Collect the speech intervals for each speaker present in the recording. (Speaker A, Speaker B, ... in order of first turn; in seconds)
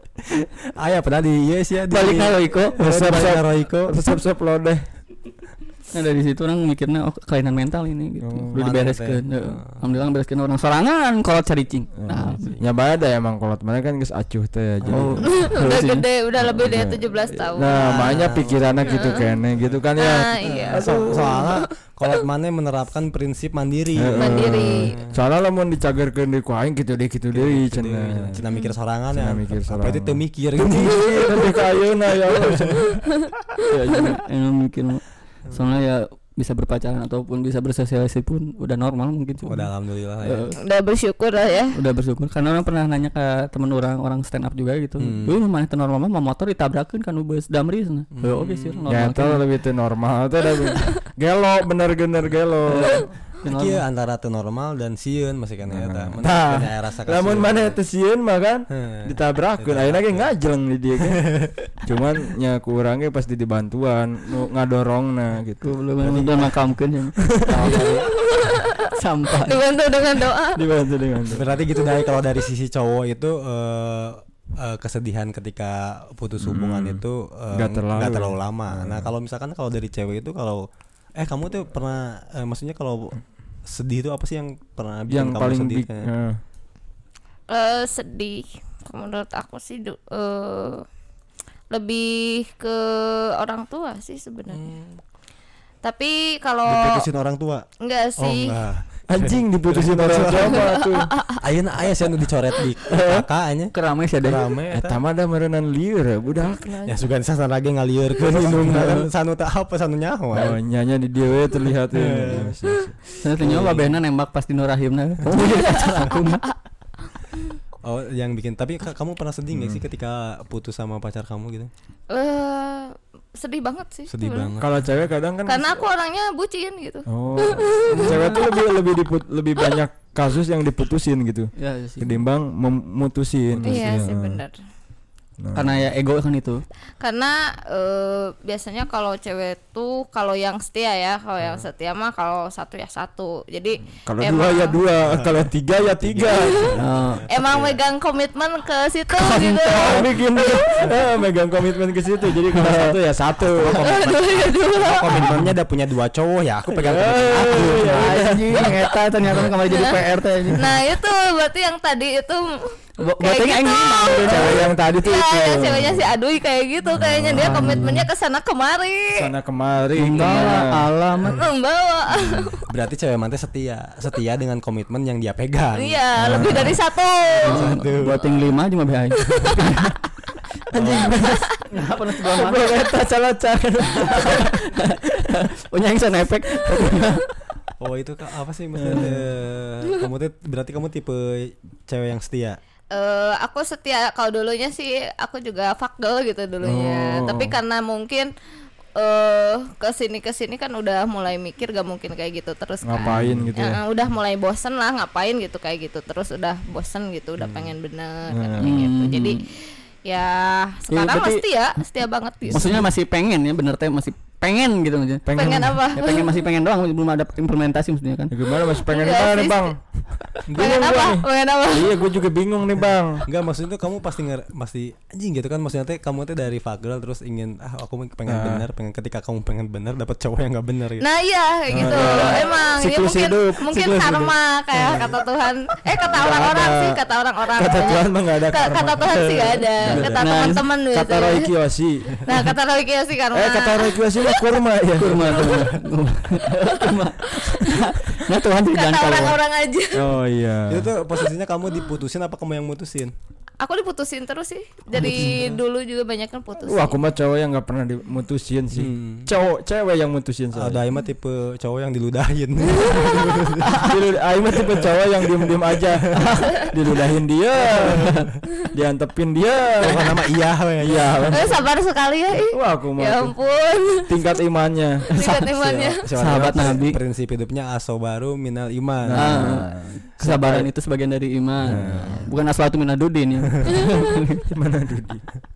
Speaker A: 0.4-4.0, 8.5-9.8, 12.4-12.6, 14.8-15.3, 17.7-19.8, 20.4-25.1, 27.3-31.6, 32.3-32.7, 39.4-40.5, 45.0-45.4, 48.1-48.8, 53.5-57.8, 58.7-60.3, 61.2-61.5, 66.0-66.5, 67.4-68.1, 71.3-86.1, 94.5-95.0, 96.7-97.7, 98.2-100.6, 101.3-105.0, 106.8-110.5, 111.9-112.5, 113.4-113.9, 117.8-121.7, 124.1-124.7, 133.6-134.1, 145.0-147.8, 153.4-158.3, 172.6-176.7, 177.4-178.4, 180.7-181.1, 187.8-192.6, 203.1-203.5, 207.4-207.7, 220.5-220.9, 223.2-231.0, 231.7-232.4, 234.8-235.1, 250.7-253.1, 258.7-259.3, 260.5-263.8, 267.8-268.2, 269.8-271.5, 275.5-279.6, 281.6-282.2
Speaker B: 1.9-3.1, 5.9-12.5, 14.9-16.0, 33.7-39.7, 40.2-40.6, 41.7-49.4, 52.7-53.8, 65.6-67.8, 68.8-69.6, 102.8-104.5, 113.2-116.4, 127.9-128.4, 131.6-132.2, 135.5-136.6, 146.8-147.3, 149.1-150.1, 152.5-153.0, 157.4-160.8, 163.0-164.8, 167.3-168.1, 170.0-171.5, 177.4-180.0, 180.7-182.9, 183.8-187.3, 208.6-209.4, 210.9-211.4, 212.5-218.3, 239.8-240.6, 245.0-249.4, 255.0-255.2, 267.9-268.2, 276.1-277.0, 279.1-284.4
Speaker C: 2.8-4.8, 8.2-8.6, 12.0-15.5, 16.4-21.1, 24.0-28.4, 29.1-33.0, 48.9-53.1, 55.7-61.3, 61.8-65.7, 70.5-71.5, 76.4-79.1, 85.1-86.4, 99.1-101.1, 104.7-107.0, 108.2-109.1, 110.3-113.0, 119.5-119.8, 124.6-125.9, 127.1-134.4, 135.4-135.8, 144.1-146.7, 149.8-153.8, 156.7-158.7, 164.2-166.1, 166.9-167.9, 169.1-170.9, 176.2-176.8, 182.2-184.6, 188.7-189.3, 196.6-197.6, 202.8-203.8, 208.3-208.8, 215.2-215.8, 218.3-219.8, 220.5-223.2, 228.3-228.6, 231.7-235.0, 236.0-237.0, 237.5-240.3, 240.9-242.5, 243.3-245.6, 249.9-250.9, 256.6-260.8, 263.8-270.2, 270.8-271.6, 272.5-273.3, 274.1-275.4, 279.0-280.7, 281.6-282.2, 284.5-285.2
Speaker D: 15.3-18.2, 18.8-19.3, 20.0-21.6, 24.2-24.9, 40.6-41.8, 68.1-70.6, 87.5-90.8, 91.7-94.7, 95.8-97.0, 97.8-98.5, 100.5-101.4, 115.5-116.5, 122.1-124.5, 125.5-128.5, 133.6-134.5, 137.0-144.8, 146.2-146.8, 147.3-150.1, 153.7-155.3, 159.6-160.0, 160.5-169.3, 171.3-172.6, 175.8-177.8, 179.2-179.6, 192.9-198.3, 198.9-212.8, 215.3-216.4, 218.8-219.7, 220.3-222.1, 231.0-241.5, 242.2-244.4, 246.6-247.9, 248.6-250.1, 253.6-257.0, 271.3-274.2, 275.1-276.1, 283.7-284.0